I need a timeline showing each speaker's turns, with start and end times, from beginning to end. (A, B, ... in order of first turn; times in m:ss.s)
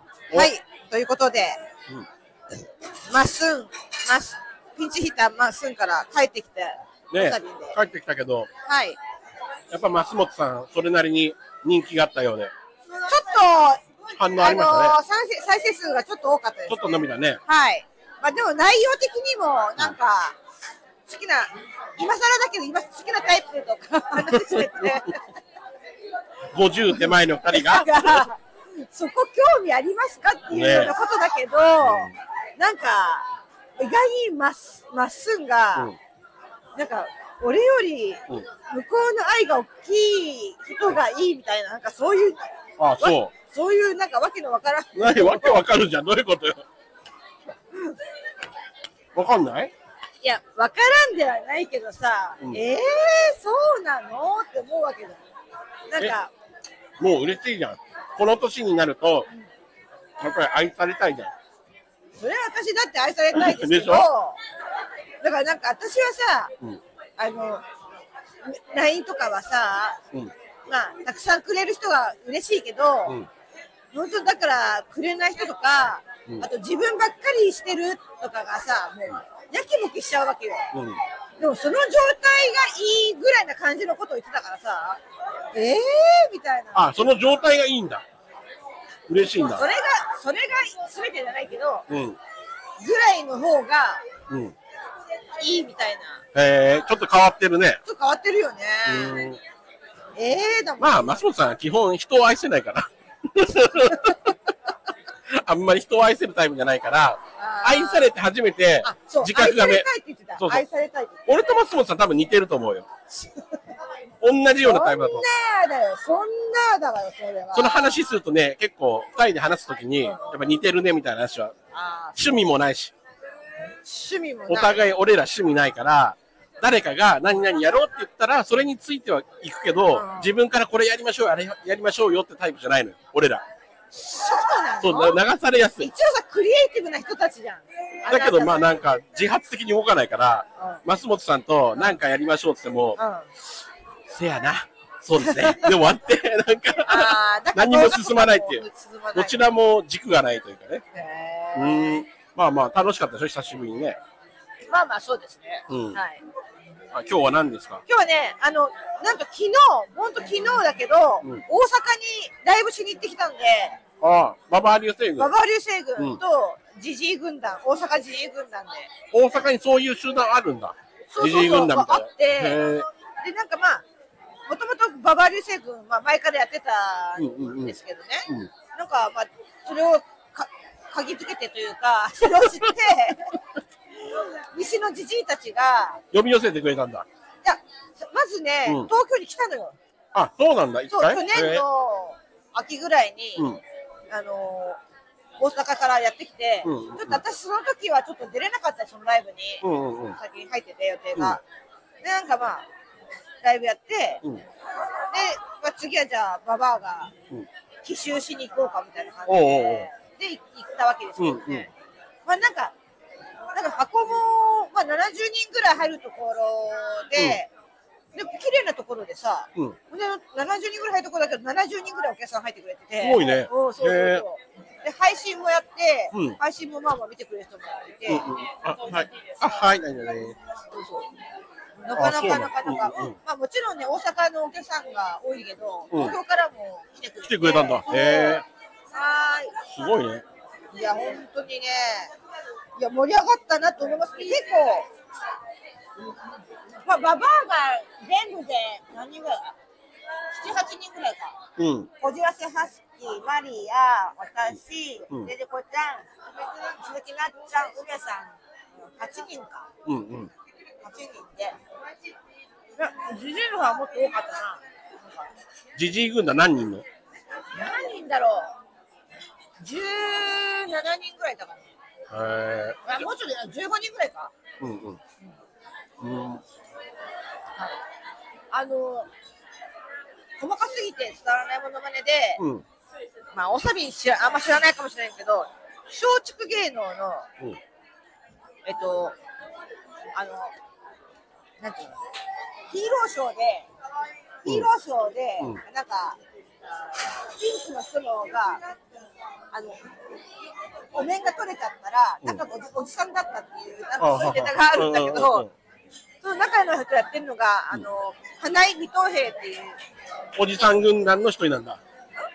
0:00.3-0:01.6 A
0:03.1-0:07.8 A
0:07.1-0:08.5 B
0:08.7-0:09.0 A
0:09.7-0:12.5 B
0:12.9-0:20.4 A
0:14.2-0:15.0 B
0:16.7-0:17.4 B
0:21.1-0:25.3 A
0:24.3-0:24.9 B
0:26.5-0:28.2 B
0:26.9-0:33.3 A
0:30.5-0:31.0 B
0:31.8-0:32.1 B
0:33.8-0:35.9 A
0:36.8-0:45.6 A
0:42.8-0:43.3 B
0:44.9-0:46.6 B
0:49.2-0:49.7 B
0:50.2-0:55.2 A
0:55.9-0:56.3 A
0:57.0-0:59.3 B
1:00.2-1:01.3 B
1:02.2-1:04.4 A
1:03.3-1:04.1 B
1:05.2-1:06.5 A
1:07.2-1:07.6 A
1:08.4-1:10.0 A
1:10.7-1:13.2 A
1:13.9-1:20.7 A
1:20.7-1:21.0 B
1:21.4-1:25.0 A
1:25.5-1:27.1 A
1:26.7-1:28.0 B
1:29.1-1:29.7 B
1:29.4-1:31.9 A
1:31.9-1:32.2 B
1:32.8-1:34.0 A
1:34.3-1:34.6 B
1:35.4-1:36.2 A
1:36.4-1:37.8 B
1:37.8-1:39.2 A
1:38.8-1:39.4 B
1:40.2-1:41.2 A
1:40.8-1:44.4 B
1:45.3-1:49.9 B
1:47.4-1:48.2 A
1:48.8-1:51.3 A
1:50.4-1:50.6 B
1:51.3-1:52.9 B
1:53.1-1:53.6 A
1:54.2-1:55.3 B
1:54.6-1:58.0 A
1:57.5-2:01.6 B
2:00.0-2:00.4 A
2:01.7-2:02.4 A
2:02.2-2:02.9 B
2:03.8-2:04.9 A
2:04.5-2:13.4 B
2:09.9-2:10.3 A
2:13.9-2:15.2 A
2:14.8-2:15.9 B
2:15.8-2:18.6 A
2:18.1-2:23.0 B
2:20.6-2:20.8 A
2:23.0-2:23.3 A
2:24.1-2:30.8 B
2:25.2-2:25.7 A
2:26.8-2:29.4 A
2:30.9-2:32.0 A
2:31.5-2:34.0 B
2:34.7-2:36.2 A
2:35.7-2:36.0 B
2:36.9-2:37.8 B
2:37.9-2:43.8 A
2:44.0-2:45.3 B
2:45.2-2:48.9 A
2:49.1-2:52.9 B
2:51.1-2:52.7 A
2:53.2-2:53.8 A
2:54.5-3:03.3 A
2:57.2-2:57.8 B
3:02.2-3:02.6 B
3:04.0-3:06.0 A
3:06.1-3:07.1 B
3:07.4-3:09.8 A
3:08.6-3:08.9 B
3:10.1-3:11.6 B
3:10.9-3:13.5 A
3:14.1-3:14.8 A
3:15.4-3:21.4 A
3:16.6-3:17.2 B
3:19.6-3:20.2 B
3:22.0-3:22.7 A
3:23.4-3:24.2 A
3:25.1-3:27.1 A
3:27.8-3:31.7 A
3:29.3-3:29.9 B
3:31.2-3:31.7 B
3:32.3-3:32.7 A
3:33.5-3:37.5 A
3:37.2-3:37.4 B
3:38.1-3:48.4 A
3:43.0-3:44.3 B
3:46.1-3:46.4 B
3:48.1-3:50.4 B
3:48.9-3:49.7 A
3:50.5-3:51.1 A
3:51.8-3:59.6 A
3:52.0-3:53.2 B
3:55.9-3:56.2 B
3:57.2-3:58.4 B
3:59.7-4:00.2 B
4:00.7-4:02.1 A
4:02.8-4:04.9 A
4:06.8-4:09.6 A
4:10.3-4:11.4 A
4:11.6-4:11.9 B
4:12.0-4:19.7 A
4:19.8-4:20.3 B
4:20.8-4:21.6 A
4:22.8-4:25.3 A
4:25.8-4:26.9 B
4:27.5-4:28.6 A
4:29.6-4:31.7 A
4:32.1-4:33.0 B
4:32.8-4:34.3 A
4:34.6-4:35.0 B
4:36.0-4:36.4 B
4:38.5-4:39.1 A
4:40.4-4:42.4 A
4:42.4-4:42.6 B
4:43.3-4:47.3 A
4:48.6-4:49.2 A
4:50.1-4:50.5 A
4:51.6-4:52.0 A
4:52.7-4:53.7 A
4:54.4-4:56.2 A
4:57.2-4:58.6 A
4:59.5-4:59.8 A
5:00.9-5:05.5 A
5:04.0-5:05.5 B
5:06.2-5:09.8 A
5:10.4-5:11.8 B